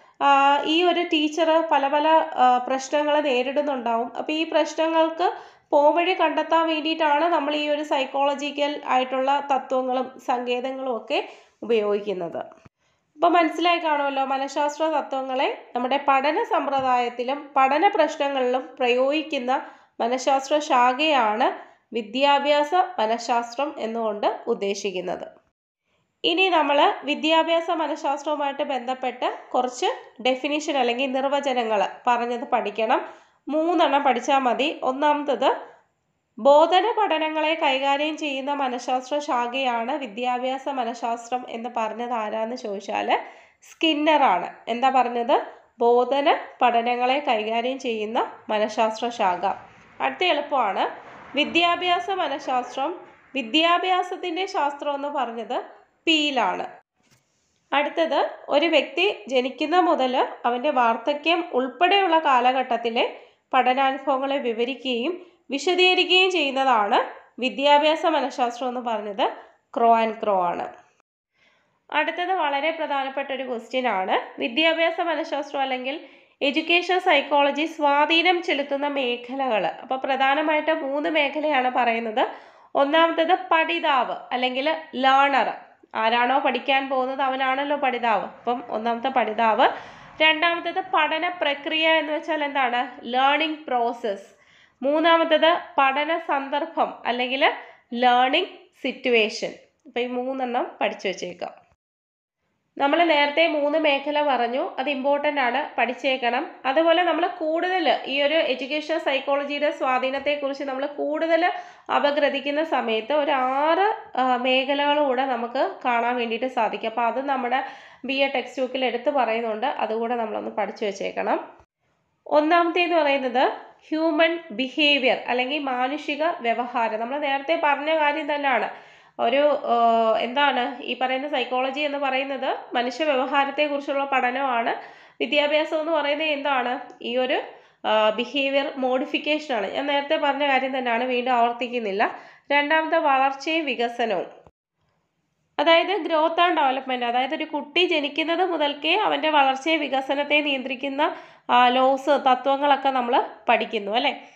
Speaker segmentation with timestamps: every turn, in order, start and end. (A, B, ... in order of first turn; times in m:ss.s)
0:00.3-0:12.4 A
0:13.2-0:25.3 A
0:26.3-0:33.0 A
0:33.5-0:35.5 A
0:36.4-0:56.7 A
0:57.8-1:10.7 A
1:12.0-1:22.3 A
1:22.8-1:37.5 A
1:38.0-1:41.5 A
1:42.8-2:01.4 A
2:02.4-2:08.7 A
2:09.2-2:17.4 A
2:17.9-2:24.2 A
2:25.6-2:34.2 A